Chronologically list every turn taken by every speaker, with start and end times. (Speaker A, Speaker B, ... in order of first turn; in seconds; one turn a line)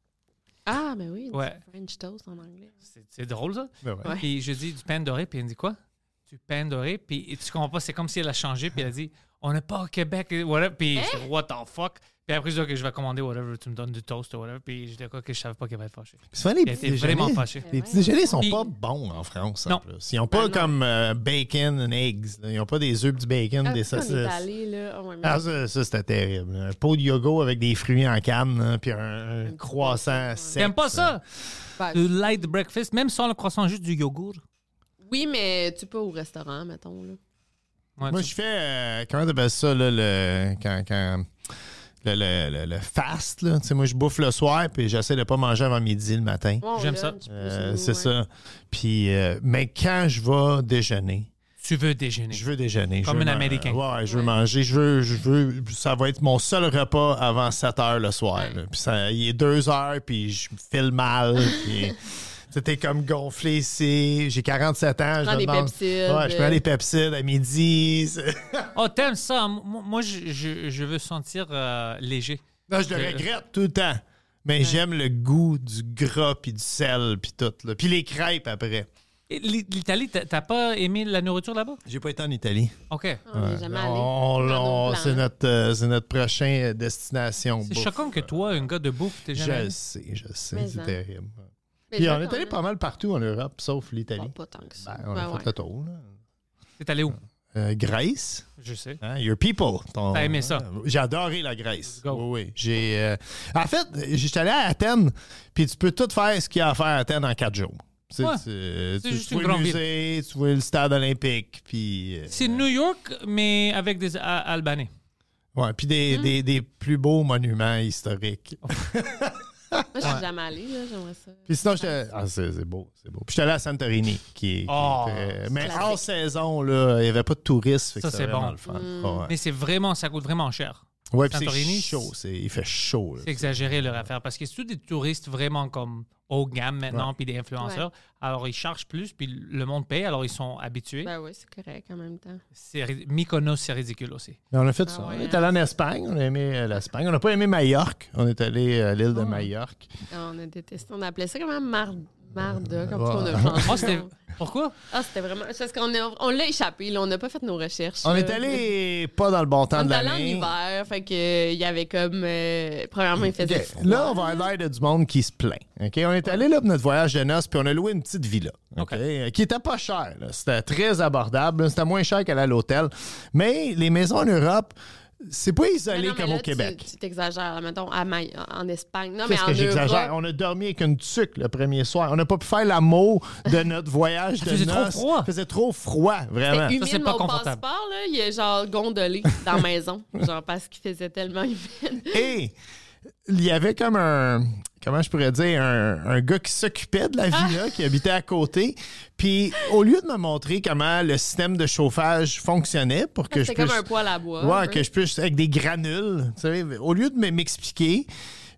Speaker A: 0.7-2.7
Speaker B: 1.3-1.6
Speaker B: 2.9-5.8
Speaker C: 3.8-4.1
Speaker B: 6.3-17.7
Speaker A: 10.9-11.2
Speaker C: 16.3-24.4
Speaker A: 17.6-18.5
Speaker A: 20.3-20.7
Speaker A: 23.6-25.4
Speaker C: 25.2-31.2
Speaker A: 29.4-30.6
Speaker B: 30.6-31.2
Speaker A: 31.8-32.5
Speaker B: 31.9-34.4
Speaker A: 35.0-37.2
Speaker B: 38.0-38.3
Speaker C: 38.1-41.3
Speaker C: 42.0-46.6
Speaker A: 46.6-48.1
Speaker B: 46.7-47.1
Speaker C: 47.3-51.3
Speaker B: 51.6-52.5
Speaker C: 52.3-68.7
Speaker B: 53.0-53.8
Speaker A: 54.1-54.3
Speaker A: 65.2-66.6
Speaker B: 68.7-73.2
Speaker C: 72.7-78.9
Speaker B: 79.3-81.8
Speaker C: 81.8-82.7
Speaker B: 82.9-83.2
Speaker A: 83.3-85.2
Speaker C: 83.3-88.7
Speaker B: 87.6-89.7
Speaker C: 89.3-96.1
Speaker A: 90.5-91.0
Speaker A: 91.9-92.6
Speaker A: 94.2-95.5
Speaker B: 96.8-97.2
Speaker C: 97.5-98.5
Speaker B: 98.6-99.0
Speaker C: 99.0-112.6
Speaker B: 100.1-100.6
Speaker B: 109.0-109.8
Speaker B: 112.3-114.9
Speaker C: 115.5-120.1
Speaker A: 119.9-121.9
Speaker C: 121.5-129.3
Speaker B: 124.7-125.9
Speaker A: 125.6-126.0
Speaker B: 128.0-128.6
Speaker A: 128.7-129.2
Speaker B: 129.2-132.1
Speaker C: 131.1-133.7
Speaker B: 133.2-141.1
Speaker A: 141.0-142.4
Speaker B: 142.6-144.4
Speaker C: 144.5-149.9
Speaker A: 144.9-145.5
Speaker A: 150.1-154.1
Speaker C: 152.5-153.9
Speaker B: 153.7-154.7
Speaker A: 154.9-158.6
Speaker C: 158.0-160.5
Speaker A: 159.7-164.5
Speaker C: 163.2-176.8
Speaker A: 175.9-180.1
Speaker C: 179.2-186.7
Speaker B: 184.4-185.3
Speaker A: 186.5-192.2
Speaker B: 186.8-187.6
Speaker C: 192.1-192.5
Speaker C: 193.2-203.8
Speaker A: 203.3-204.8
Speaker C: 204.4-208.1